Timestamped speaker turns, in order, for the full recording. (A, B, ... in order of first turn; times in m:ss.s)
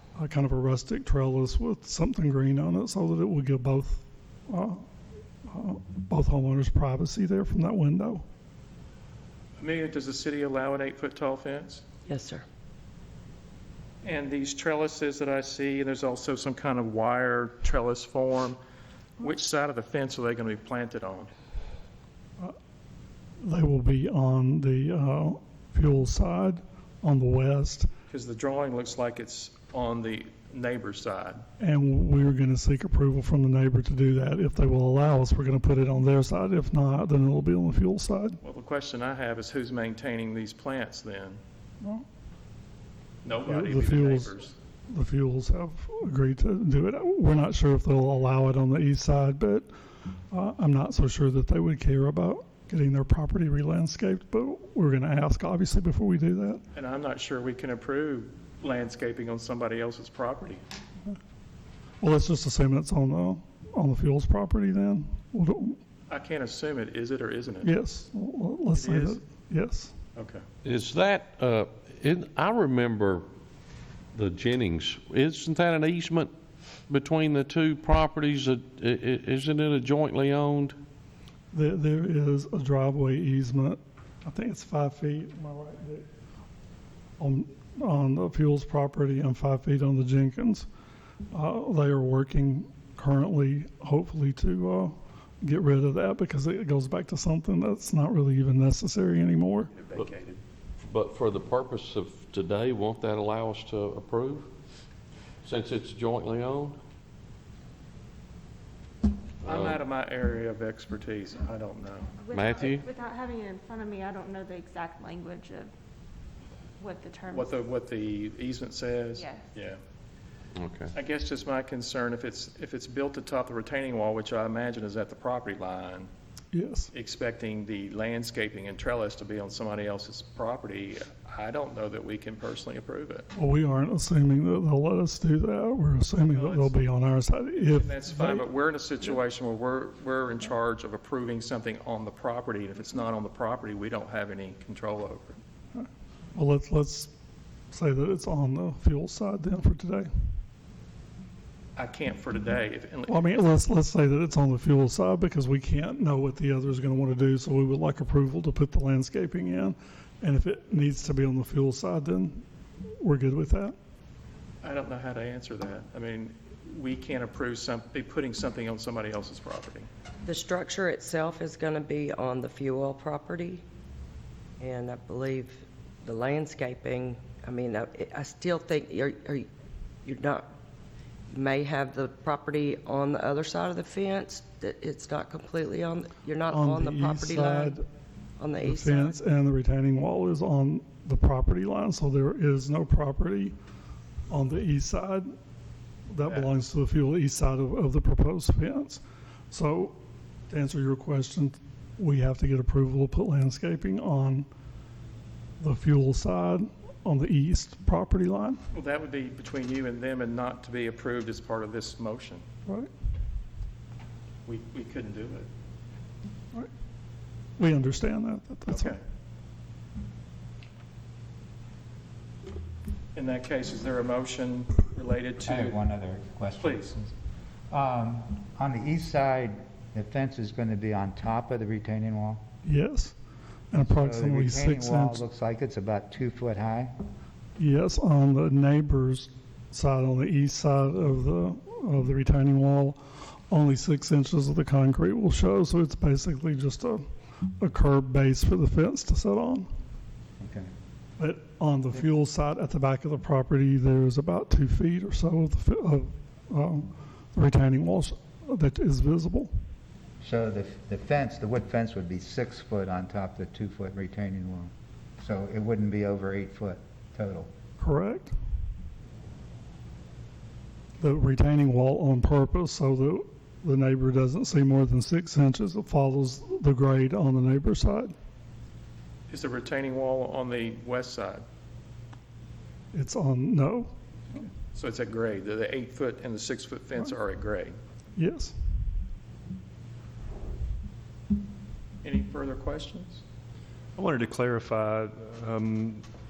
0:00.2-0:04.8 A
0:05.4-0:08.2 A
0:09.6-0:11.8 B
0:12.1-0:12.4 C
0:14.0-0:18.6 B
0:19.2-0:21.3 B
0:23.4-0:27.9 A
0:28.1-0:31.4 B
0:31.6-0:38.4 A
0:38.4-0:41.4 B
0:43.2-0:44.5 B
0:43.5-0:44.3 A
0:44.9-0:49.7 A
0:50.3-0:56.6 A
0:56.7-1:00.6 B
1:02.0-1:05.8 A
1:06.1-1:07.7 B
1:07.6-1:09.9 A
1:08.7-1:09.2 B
1:10.2-1:10.4 B
1:10.6-1:13.2 D
1:14.1-1:16.3 D
1:16.9-1:20.8 D
1:21.5-1:26.0 A
1:27.2-1:30.7 A
1:31.3-1:39.7 A
1:39.7-1:40.4 B
1:40.9-1:44.5 D
1:45.4-1:46.8 D
1:49.4-1:49.8 D
1:49.4-1:52.1 B
1:52.2-1:55.7 E
1:52.3-1:52.9 D
1:56.8-1:57.6 E
1:57.3-1:59.8 B
1:59.1-1:59.5 E
2:00.6-2:00.9 D
2:00.9-2:06.1 B
2:06.5-2:06.9 A
2:06.9-2:13.3 B
2:13.4-2:18.4 A
2:16.3-2:16.8 B
2:17.7-2:25.4 B
2:25.8-2:27.1 A
2:27.7-2:30.1 A
2:31.8-2:33.5 B
2:33.1-2:42.4 A
2:43.0-2:43.7 A
2:44.6-2:49.9 B
2:50.2-2:53.6 C
2:54.6-2:59.5 C
3:00.0-3:00.5 C
3:01.3-3:07.7 C
3:06.5-3:07.8 A
3:08.4-3:09.1 C
3:08.6-3:13.6 A
3:14.3-3:15.3 A
3:16.1-3:20.0 A
3:16.2-3:16.5 B
3:20.5-3:24.5 A
3:25.6-3:28.6 A
3:28.7-3:32.4 B
3:34.4-3:35.5 B
3:37.6-3:39.0 A
3:38.7-3:39.0 B
3:43.1-3:45.8 B
3:45.4-3:47.1 F
3:46.6-3:46.9 B
3:47.7-3:52.4 F
3:52.6-3:53.2 A
3:53.7-3:55.2 A
3:53.7-3:56.9 F
3:57.6-4:03.0 A
4:03.5-4:07.0 A
4:07.6-4:09.7 A
4:10.4-4:10.7 F
4:11.2-4:19.5 A
4:20.2-4:27.5 F
4:27.8-4:28.3 A
4:31.0-4:38.1 A
4:39.3-4:41.4 B
4:42.9-4:43.9 A
4:44.7-4:47.8 B
4:48.2-4:48.5 A
4:52.0-4:53.2 B
4:54.0-4:56.0 G